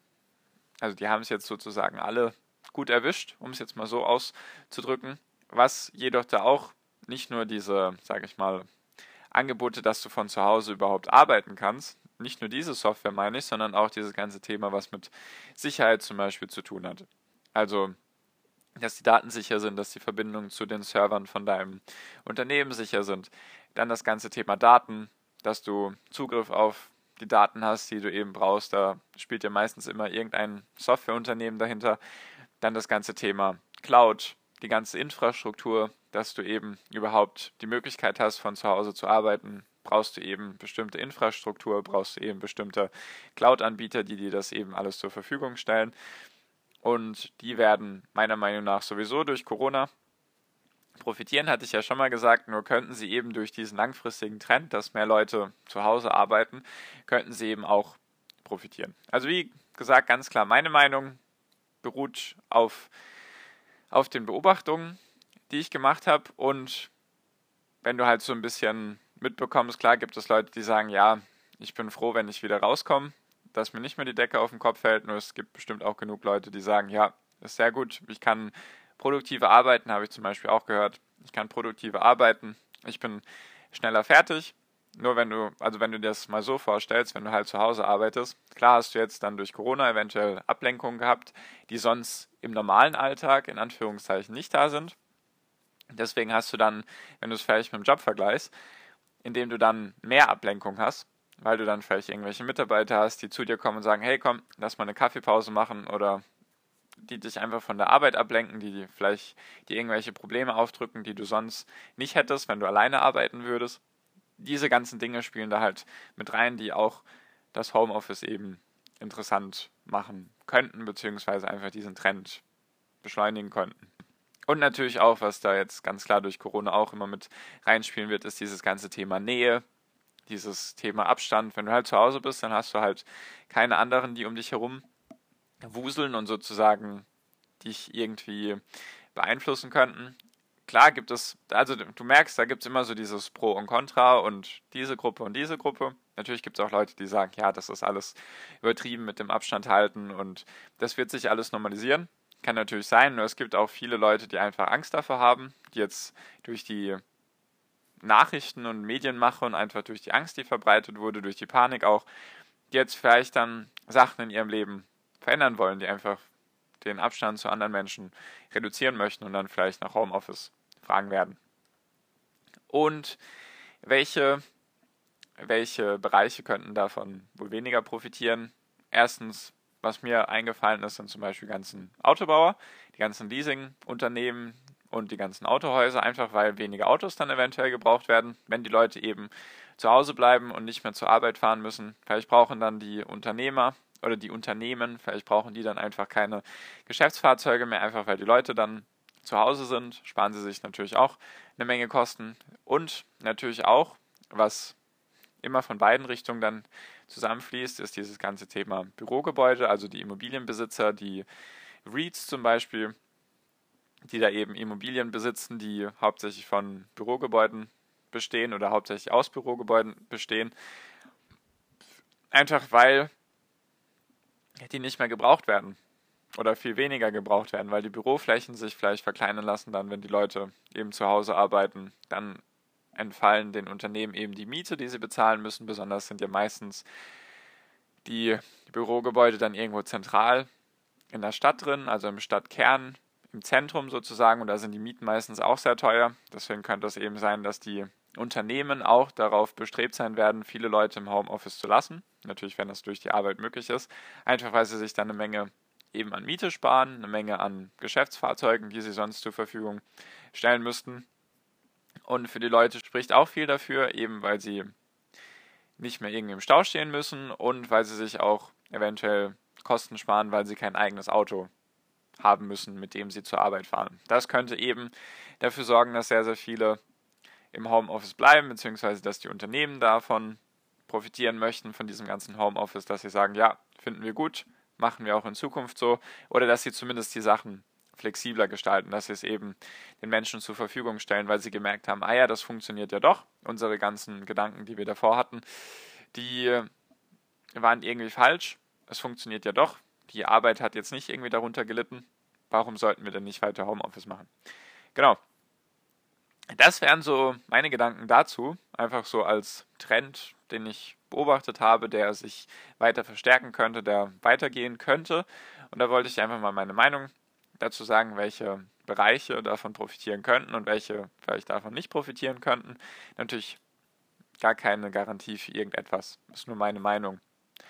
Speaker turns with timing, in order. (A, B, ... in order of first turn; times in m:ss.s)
0:00.8-0:08.7 A
0:09.3-0:18.0 A
0:18.8-0:32.0 A
0:32.6-0:46.0 A
0:46.8-0:49.9 A
0:51.0-1:01.2 A
1:01.8-1:02.9 A
1:03.9-1:06.9 A
1:07.8-1:35.0 A
1:35.9-1:38.5 A
1:39.2-1:46.2 A
1:47.0-1:53.8 A
1:54.4-2:02.4 A
2:03.0-2:03.9 A
2:04.5-2:09.6 A
2:10.3-2:14.9 A
2:15.6-2:17.0 A
2:17.6-2:18.6 A
2:19.1-2:37.0 A
2:38.0-2:42.1 A
2:42.7-2:46.2 A
2:46.8-2:51.4 A
2:52.7-2:53.2 A
2:53.8-2:54.4 A
2:55.4-3:24.8 A
3:25.4-3:31.3 A
3:31.8-3:33.0 A
3:34.0-3:40.5 A
3:42.3-3:43.1 A
3:44.6-3:45.8 A
3:46.4-3:52.4 A
3:53.0-3:56.8 A
3:58.0-4:00.5 A
4:01.1-4:21.1 A
4:22.1-4:24.7 A
4:25.8-4:31.5 A
4:32.2-4:36.8 A
4:37.5-4:55.4 A
4:56.1-4:56.7 A
4:57.6-5:04.3 A
5:06.5-5:23.6 A
5:24.4-5:27.2 A